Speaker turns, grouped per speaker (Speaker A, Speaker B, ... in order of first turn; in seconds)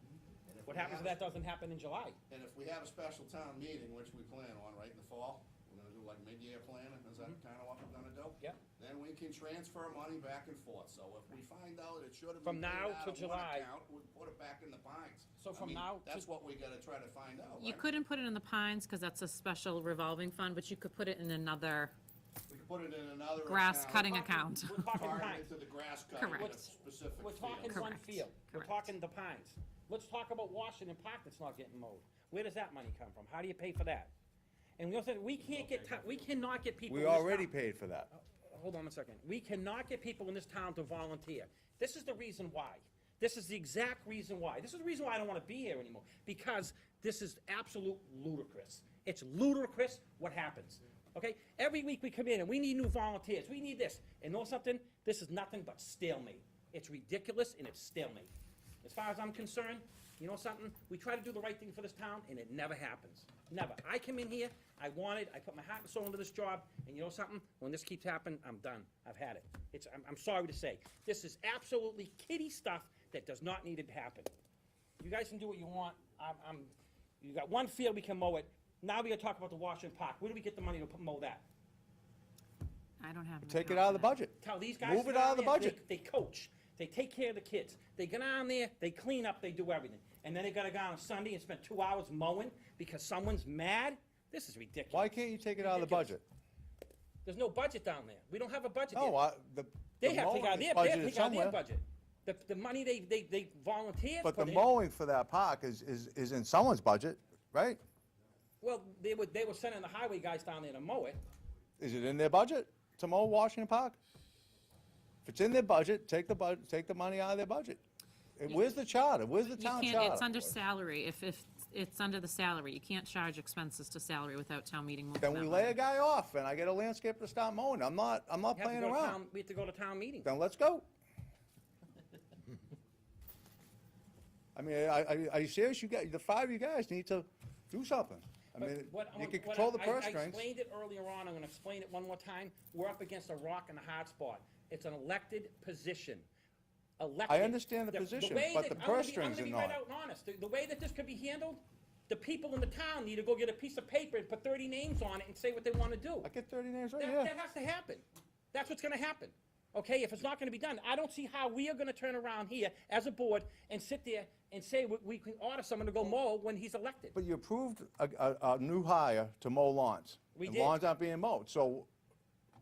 Speaker A: 0.4-1.2, 2.3-17.9, 22.5-24.3, 24.9-27.8
Speaker B: 0.7-2.2, 12.4-13.7, 15.4-16.3, 24.1-25.5, 26.3-26.6, 27.2-34.1, 34.8-37.5, 38.1-58.3, 58.8-74.3, 75.0-81.5, 84.3-96.2, 97.2-99.2, 100.0-104.7, 108.6-111.2, 128.5-130.3, 138.6-146.3, 147.0-156.3, 157.0-167.1, 170.3-170.8
Speaker C: 17.6-21.9, 23.4-25.0, 26.2-26.6, 27.6-28.9, 83.0-84.1, 119.6-125.7
Speaker D: 36.9-38.1, 83.5-85.8, 94.9-96.2, 98.9-101.6, 104.2-107.8, 111.8-114.0, 115.3-117.8, 118.4-120.5, 125.2-129.2, 130.2-130.8, 134.5-140.4, 147.3-149.8, 156.2-157.3, 167.1-171.9